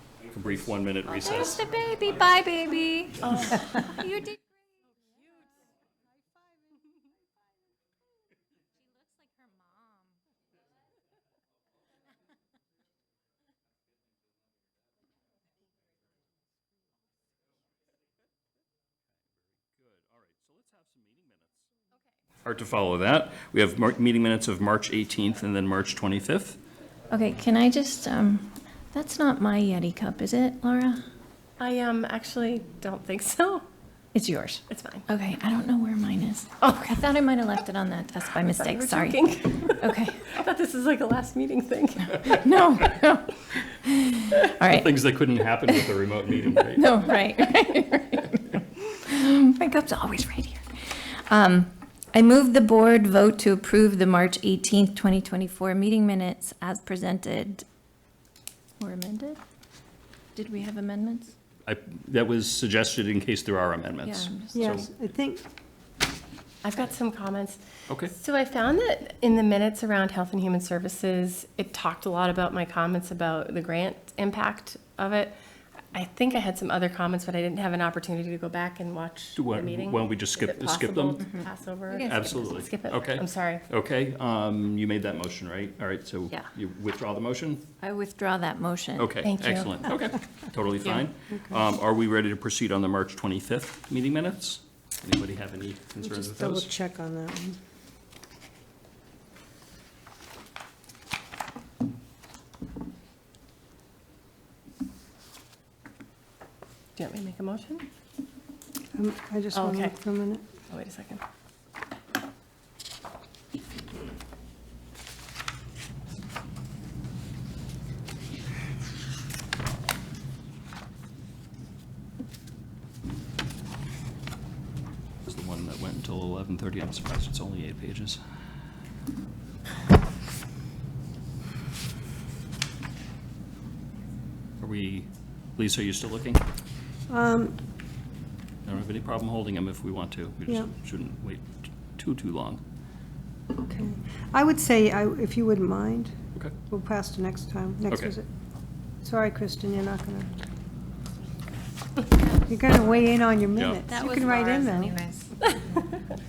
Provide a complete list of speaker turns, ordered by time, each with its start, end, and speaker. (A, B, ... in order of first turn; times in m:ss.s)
0:00.3-0:01.7 A
0:01.2-0:04.4 B
0:19.7-0:21.7 A
0:22.4-0:26.6 A
0:27.1-0:31.0 B
0:31.6-0:33.6 C
0:34.1-0:39.2 B
0:34.7-0:35.1 C
0:36.6-0:37.1 C
0:38.4-0:42.2 C
0:39.7-0:40.2 B
0:42.3-0:43.3 B
0:43.8-0:44.9 B
0:44.7-0:46.9 A
0:46.8-0:57.6 B
0:58.8-0:59.4 B
1:00.4-1:01.3 B
1:01.6-1:04.9 A
1:04.0-1:04.5 B
1:04.5-1:05.4 D
1:06.6-1:07.6 C
1:07.9-1:08.1 A
1:08.1-1:15.4 C
1:15.9-1:23.6 C
1:19.4-1:21.2 A
1:22.1-1:27.7 A
1:27.8-1:29.1 B
1:29.0-1:36.7 A
1:29.2-1:29.7 C
1:36.0-1:37.6 D
1:47.0-1:47.8 C
1:49.0-1:50.4 D
1:49.5-1:50.0 C
1:50.7-1:51.2 C
2:05.2-2:08.2 A
2:14.6-2:16.4 A
2:17.1-2:17.6 D
2:18.7-2:22.6 A
2:23.6-2:26.1 D
2:26.7-2:28.3 D
2:27.9-2:28.1 A
2:29.0-2:30.3 D
2:32.3-2:35.0 D
2:33.6-2:33.8 A
2:33.9-2:35.3 B